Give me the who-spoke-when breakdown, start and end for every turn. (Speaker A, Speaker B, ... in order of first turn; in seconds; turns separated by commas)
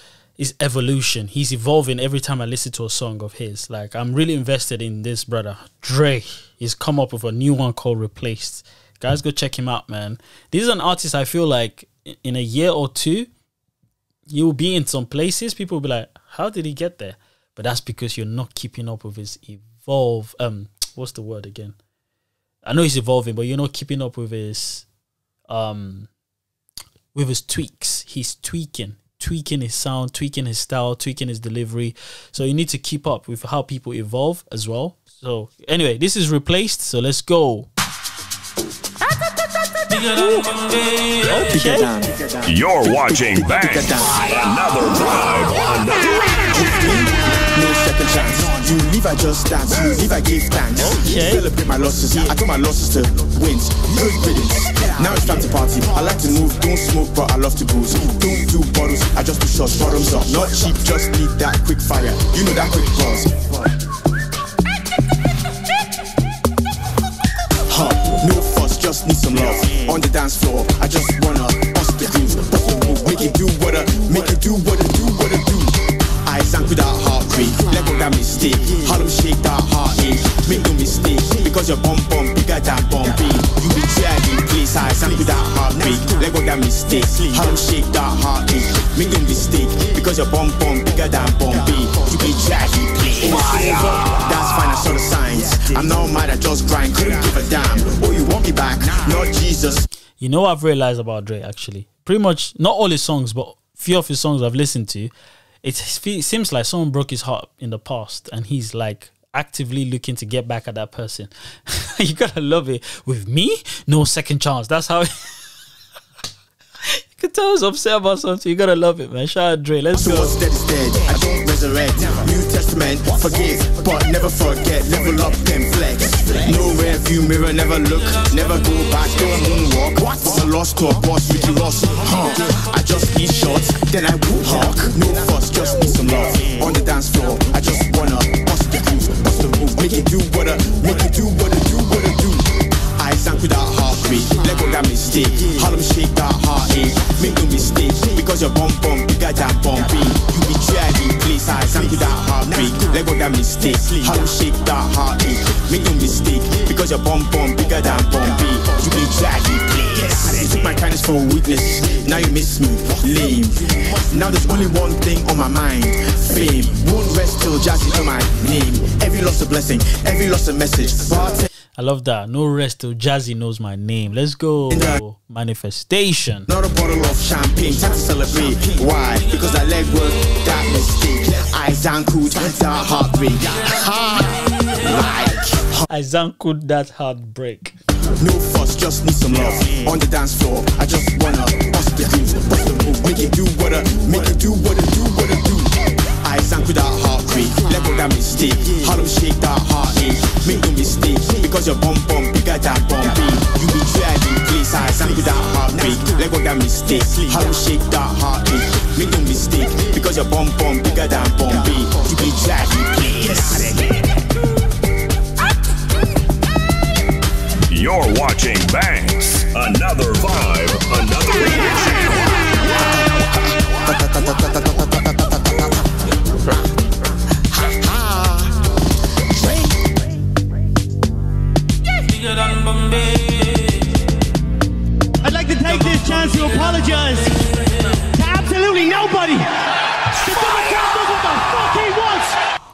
Speaker A: 0.4-13.3, Speaker A: 14.3-21.8, Speaker A: 22.6-24.9, Speaker A: 25.5-26.1, Speaker A: 27.1-37.7, Speaker A: 40.0-40.5, Speaker B: 40.6-41.1, Speaker A: 41.2-41.9, Speaker C: 41.5-42.5, Speaker B: 42.5-46.7, Speaker C: 43.3-44.2, Speaker C: 46.5-63.5, Speaker A: 50.8-51.4, Speaker C: 67.7-99.8, Speaker A: 100.2-105.1, Speaker A: 105.6-115.4, Speaker A: 117.0-120.3, Speaker C: 119.9-171.5, Speaker A: 171.8-176.5, Speaker C: 174.7-175.0, Speaker C: 176.5-185.8, Speaker A: 185.9-187.8, Speaker C: 188.2-213.9, Speaker B: 217.7-222.3, Speaker C: 224.0-224.8, Speaker B: 232.3-233.3, Speaker D: 235.2-237.4, Speaker D: 238.0-242.4